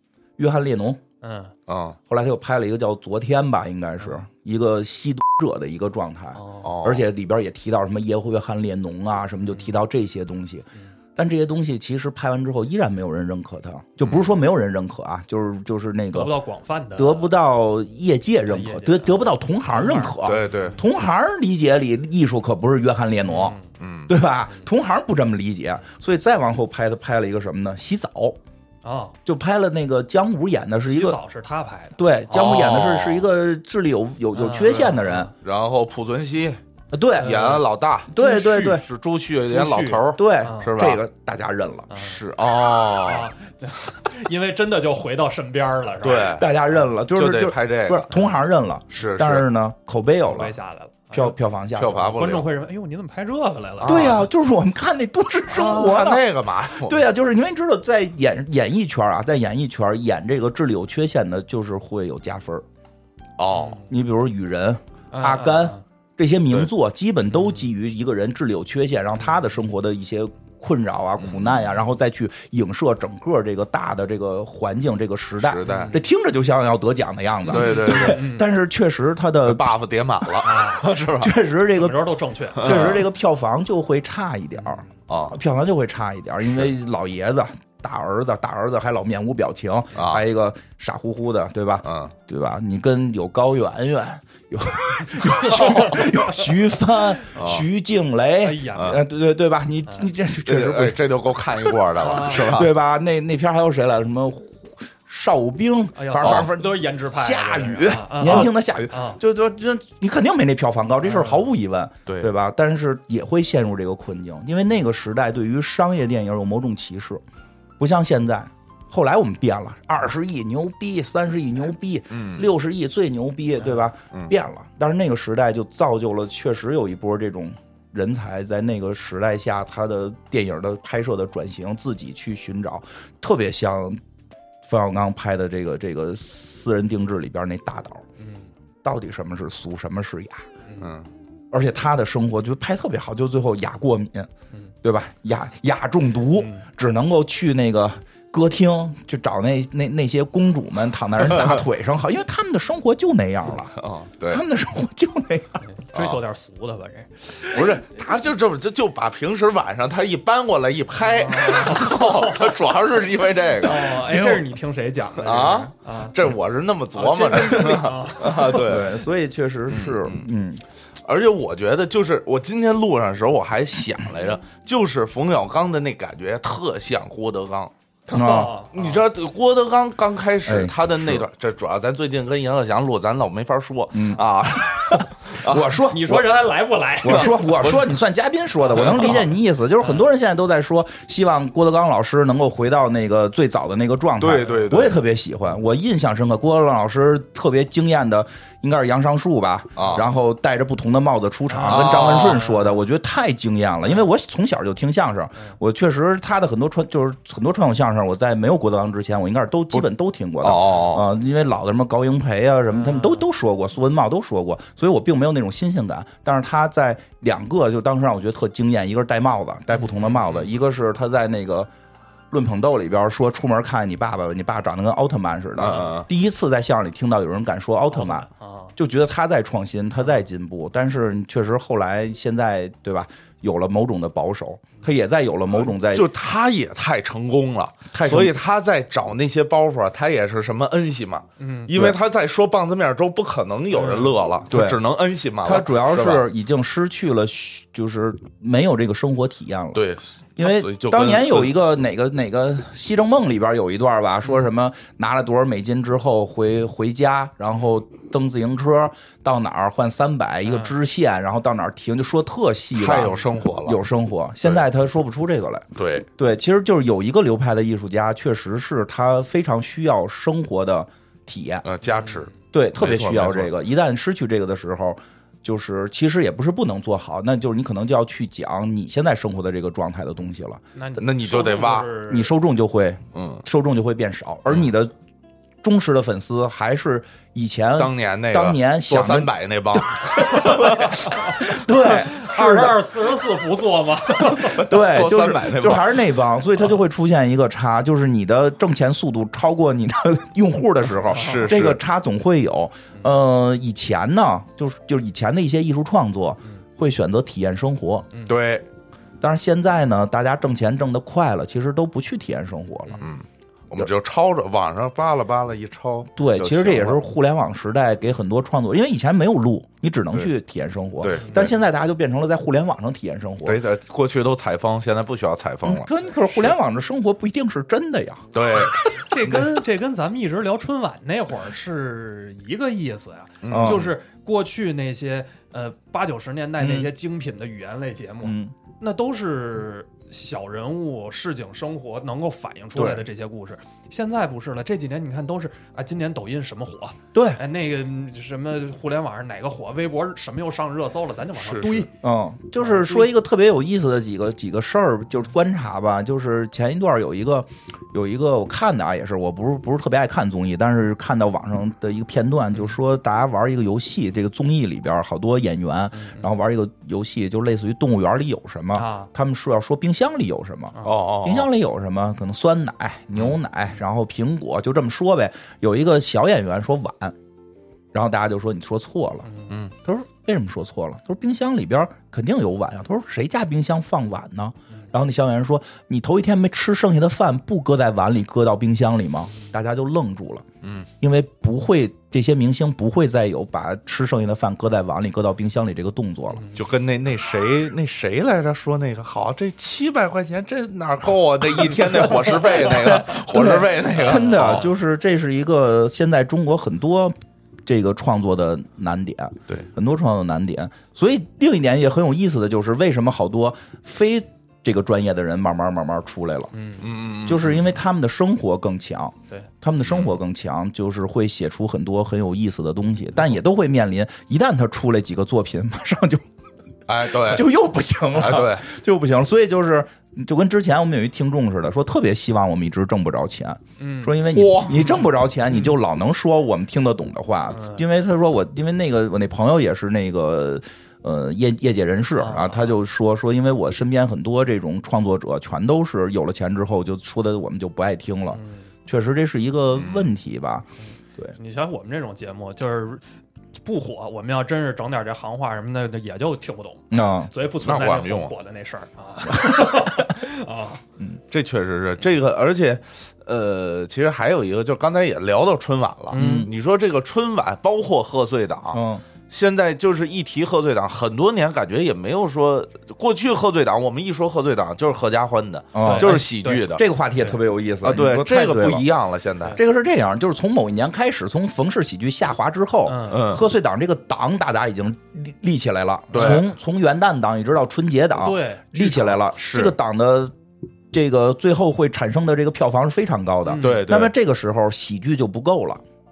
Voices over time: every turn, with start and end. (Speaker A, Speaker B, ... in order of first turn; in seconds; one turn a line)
Speaker A: 0.4-1.0
Speaker B: 1.2-1.5
Speaker C: 1.7-2.0
Speaker A: 2.1-16.3
Speaker B: 6.3-6.7
Speaker C: 6.6-7.1
Speaker C: 14.0-14.3
Speaker B: 16.1-17.3
Speaker A: 17.0-23.6
Speaker B: 18.5-20.2
Speaker C: 20.2-20.8
Speaker B: 23.2-23.7
Speaker C: 23.8-24.1
Speaker A: 24.1-28.4
Speaker B: 28.8-29.1
Speaker A: 29.2-31.2
Speaker B: 30.8-32.6
Speaker A: 32.0-35.3
Speaker C: 32.3-33.3
Speaker B: 34.3-35.3
Speaker C: 35.4-36.6
Speaker A: 36.9-38.8
Speaker B: 37.2-37.6
Speaker C: 37.2-41.0
Speaker B: 38.1-38.8
Speaker B: 39.5-40.7
Speaker A: 40.1-41.9
Speaker B: 41.9-42.2
Speaker C: 41.9-43.3
Speaker B: 43.0-46.4
Speaker C: 46.0-46.5
Speaker A: 46.3-50.5
Speaker C: 47.1-48.1
Speaker B: 48.1-48.4
Speaker C: 48.9-49.5
Speaker B: 50.2-51.4
Speaker A: 51.1-52.2
Speaker C: 51.7-52.5
Speaker B: 52.0-54.3
Speaker C: 53.8-54.2
Speaker A: 53.8-62.6
Speaker C: 55.5-57.1
Speaker C: 63.4-63.8
Speaker B: 63.5-63.8
Speaker A: 63.9-79.7
Speaker B: 65.1-65.8
Speaker C: 71.2-71.6
Speaker C: 75.4-75.9
Speaker B: 75.7-76.0
Speaker B: 77.5-78.5
Speaker C: 77.5-78.2
Speaker C: 79.5-81.3
Speaker B: 80.4-80.9
Speaker A: 81.2-82.0
Speaker B: 81.7-83.0
Speaker A: 82.5-101.0
Speaker C: 82.6-83.0
Speaker C: 85.1-85.4
Speaker C: 89.9-90.2
Speaker C: 91.8-92.1
Speaker B: 95.4-96.1
Speaker C: 97.3-97.7
Speaker B: 98.4-99.0
Speaker C: 98.7-99.0
Speaker C: 100.5-102.7
Speaker A: 101.6-117.2
Speaker B: 102.0-102.6
Speaker B: 106.0-109.2
Speaker C: 106.2-106.5
Speaker B: 111.0-111.5
Speaker C: 112.0-112.3
Speaker A: 117.8-134.0
Speaker C: 122.1-122.5
Speaker A: 134.6-138.0
Speaker B: 138.2-138.5
Speaker A: 138.8-140.5
Speaker C: 140.8-141.1
Speaker A: 141.5-144.3
Speaker A: 144.8-155.6
Speaker B: 146.4-146.6
Speaker C: 153.7-154.4
Speaker B: 155.8-157.8
Speaker C: 155.9-156.2
Speaker C: 157.4-164.0
Speaker B: 161.0-162.6
Speaker B: 163.6-166.2
Speaker A: 164.0-164.5
Speaker C: 165.2-169.0
Speaker B: 166.9-168.6
Speaker A: 167.6-170.6
Speaker C: 169.7-170.2
Speaker C: 171.0-177.7
Speaker B: 178.1-179.0
Speaker A: 178.1-178.6
Speaker C: 178.7-185.8
Speaker A: 180.4-181.3
Speaker A: 183.9-186.3
Speaker B: 185.9-187.7
Speaker A: 187.0-221.7
Speaker C: 187.0-187.9
Speaker B: 188.6-189.2
Speaker C: 188.8-189.2
Speaker C: 194.2-195.0
Speaker C: 199.8-200.0
Speaker B: 201.5-202.8
Speaker C: 201.6-202.4
Speaker C: 210.4-211.1
Speaker B: 212.7-213.2
Speaker C: 219.9-220.5
Speaker A: 222.3-236.1
Speaker C: 225.6-226.1
Speaker B: 227.9-228.7
Speaker C: 235.6-246.2
Speaker A: 237.9-238.4
Speaker B: 241.4-241.7
Speaker B: 243.7-244.1
Speaker A: 244.5-244.8
Speaker A: 245.4-249.8
Speaker C: 249.7-251.5
Speaker A: 250.4-271.6
Speaker B: 260.5-260.7
Speaker C: 262.7-263.8
Speaker C: 265.8-266.1
Speaker C: 271.6-273.5
Speaker B: 271.9-272.3
Speaker A: 272.5-280.6
Speaker B: 280.7-282.3
Speaker C: 281.0-281.9
Speaker A: 282.0-284.9
Speaker C: 283.1-283.4
Speaker A: 285.6-292.9
Speaker C: 287.8-291.0
Speaker B: 290.5-294.6
Speaker A: 294.2-308.1
Speaker C: 294.3-296.0
Speaker B: 301.1-301.5
Speaker C: 301.1-301.8
Speaker C: 308.2-308.7
Speaker A: 309.2-313.0
Speaker C: 313.0-317.0
Speaker A: 316.1-323.6
Speaker C: 321.0-321.6
Speaker C: 323.4-326.5
Speaker A: 325.6-328.7
Speaker C: 328.3-329.4
Speaker B: 329.0-351.9
Speaker C: 333.4-333.9
Speaker A: 333.5-333.9
Speaker A: 336.6-336.9
Speaker A: 338.2-338.5
Speaker A: 342.7-343.1
Speaker A: 347.1-347.4
Speaker C: 351.4-351.9
Speaker A: 351.9-377.1
Speaker B: 352.6-353.1
Speaker B: 365.9-366.2
Speaker B: 368.7-369.1
Speaker C: 370.8-371.5
Speaker A: 377.9-379.3
Speaker B: 379.2-379.6
Speaker A: 379.8-390.4
Speaker C: 390.6-390.9
Speaker A: 391.0-396.5
Speaker C: 396.5-404.7
Speaker A: 402.0-407.1
Speaker B: 403.9-404.7
Speaker A: 407.6-416.5
Speaker B: 416.5-416.9
Speaker C: 416.8-417.7
Speaker A: 417.2-426.2
Speaker C: 419.9-420.1
Speaker C: 426.9-427.5
Speaker A: 427.0-451.3
Speaker C: 428.1-428.6
Speaker B: 433.8-434.2
Speaker C: 434.3-435.0
Speaker B: 434.7-434.9
Speaker B: 437.5-437.8
Speaker B: 442.2-442.7
Speaker B: 448.3-448.6
Speaker C: 449.7-450.1
Speaker B: 451.3-453.0
Speaker B: 453.6-460.8
Speaker A: 456.9-457.3
Speaker C: 457.6-458.3
Speaker A: 459.3-460.1
Speaker C: 461.3-476.8
Speaker B: 466.1-466.5
Speaker A: 466.1-466.5
Speaker A: 468.7-469.0
Speaker A: 475.7-478.9
Speaker B: 475.8-477.4
Speaker C: 477.8-479.6
Speaker A: 479.5-490.3
Speaker B: 482.9-483.2
Speaker C: 483.1-483.5
Speaker C: 486.1-486.5
Speaker B: 488.2-489.2
Speaker C: 489.3-489.8
Speaker A: 490.9-495.8
Speaker B: 493.4-493.8
Speaker C: 493.6-494.1